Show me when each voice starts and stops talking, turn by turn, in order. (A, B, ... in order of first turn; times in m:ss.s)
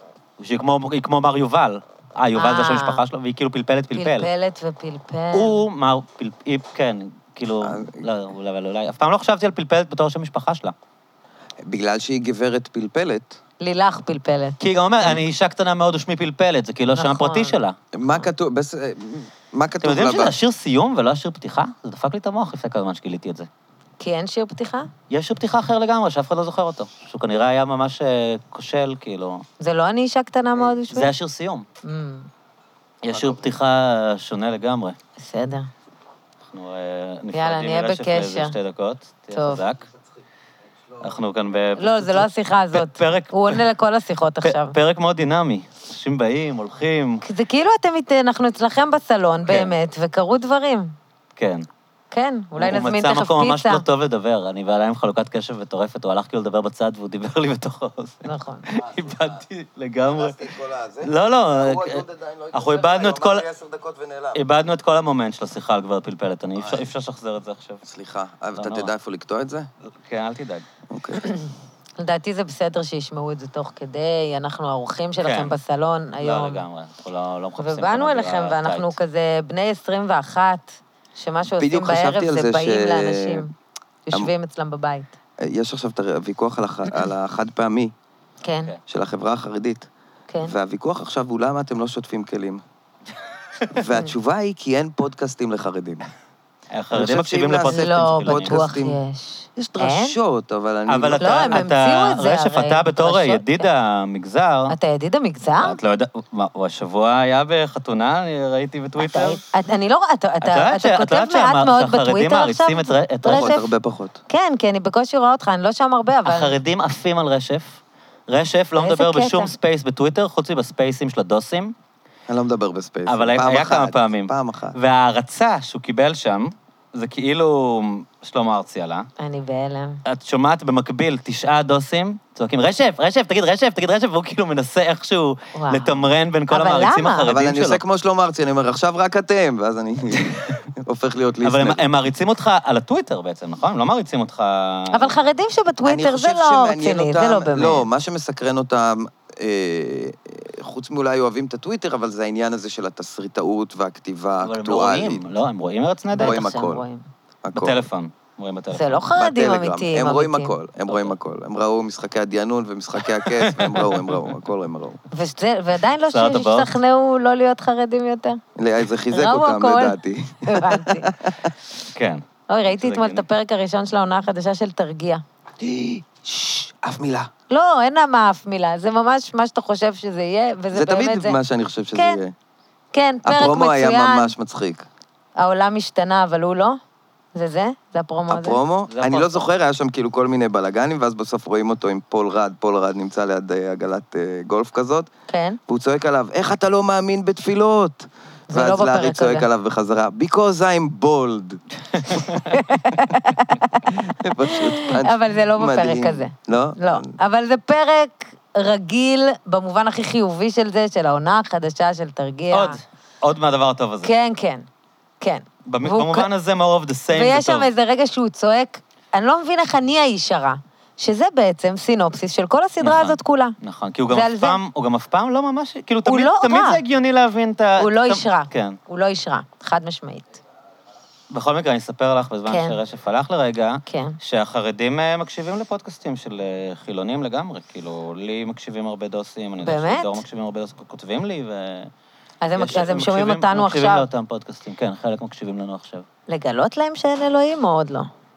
0:00.4-0:04.3 A
0:02.4-0:03.0 B
0:04.0-0:05.6 B
0:05.3-0:10.8 A
0:07.6-0:08.1 C
0:11.6-0:13.4 C
0:13.6-0:14.6 B
0:14.6-0:18.2 A
0:16.9-0:17.6 B
0:17.9-0:20.4 C
0:19.8-0:23.5 A
0:24.0-0:24.9 B
0:25.1-0:29.4 A
0:29.6-0:31.1 B
0:30.7-0:31.7 A
0:31.8-0:32.3 B
0:33.0-0:35.0 A
0:35.2-0:35.7 B
0:36.5-0:39.9 A
0:37.3-0:38.6 B
0:39.3-0:39.6 B
0:41.0-0:43.6 A
0:41.8-0:44.8 B
0:44.4-0:47.2 A
0:47.2-0:50.9 B
0:49.5-0:49.8 A
0:51.4-0:51.7 A
0:52.1-0:53.8 B
0:52.6-1:00.4 A
0:58.2-0:58.7 B
0:58.8-0:59.4 C
1:00.1-1:04.4 C
1:01.0-1:03.5 A
1:04.3-1:07.8 A
1:06.6-1:06.8 C
1:07.8-1:09.7 C
1:08.6-1:08.9 A
1:09.9-1:10.7 A
1:10.9-1:11.2 C
1:11.2-1:16.6 B
1:15.2-1:15.5 A
1:16.2-1:19.0 A
1:17.6-1:23.5 B
1:21.6-1:23.4 C
1:24.0-1:25.1 B
1:25.4-1:27.9 C
1:28.4-1:28.7 B
1:28.9-1:29.9 C
1:30.3-1:30.5 B
1:30.4-1:32.6 C
1:33.7-1:36.0 C
1:36.7-1:38.6 A
1:36.9-1:39.0 C
1:37.7-1:40.2 B
1:39.6-1:41.7 C
1:40.9-1:44.8 A
1:41.2-1:43.7 B
1:44.7-1:45.8 B
1:45.6-1:49.4 A
1:49.0-1:53.7 B
1:50.4-1:53.5 A
1:53.2-1:54.2 C
1:54.3-1:56.6 B
1:56.2-2:01.7 A
1:58.8-1:59.5 B
2:02.3-2:04.8 C
2:03.0-2:09.1 A
2:09.2-2:10.0 B
2:10.0-2:17.8 A
2:15.6-2:16.0 B
2:16.5-2:17.3 B
2:17.3-2:21.8 C
2:20.2-2:20.4 A
2:21.4-2:25.2 A
2:24.9-2:27.8 B
2:25.8-2:35.2 C
2:34.4-2:36.5 A
2:36.1-2:37.0 B
2:36.1-2:36.8 C
2:37.4-2:37.8 C
2:37.5-2:39.0 A
2:38.7-2:40.5 B
2:39.2-2:45.0 C
2:40.9-2:41.1 A
2:43.0-2:44.2 A
2:45.1-2:48.4 B
2:46.1-2:46.7 A
2:48.6-2:51.5 C
2:49.1-2:51.1 B
2:51.9-2:53.2 A
2:52.5-2:55.2 B
2:55.6-2:57.3 C
2:57.5-3:01.4 B
3:00.7-3:02.3 C
3:01.9-3:02.2 B
3:02.9-3:04.3 B
3:03.2-3:04.9 C
3:05.4-3:06.8 B
3:07.3-3:08.6 B
3:08.3-3:15.1 C
3:08.9-3:09.5 A
3:15.3-3:15.6 B
3:15.7-3:21.6 C
3:18.5-3:19.5 B
3:22.1-3:22.4 A
3:22.1-3:32.8 B
3:23.9-3:27.1 C
3:32.5-3:34.1 A
3:34.0-3:34.7 B
3:35.2-3:36.3 B
3:35.7-3:37.7 A
3:37.1-3:43.6 B
3:42.8-3:48.8 A
3:44.1-3:44.6 B
3:46.0-3:46.8 B
3:47.8-3:50.4 B
3:51.3-4:01.9 A
3:52.5-3:52.8 B
3:53.9-3:54.2 B
3:59.6-4:00.2 B
4:02.4-4:04.0 B
4:02.6-4:06.0 A
4:06.3-4:08.1 B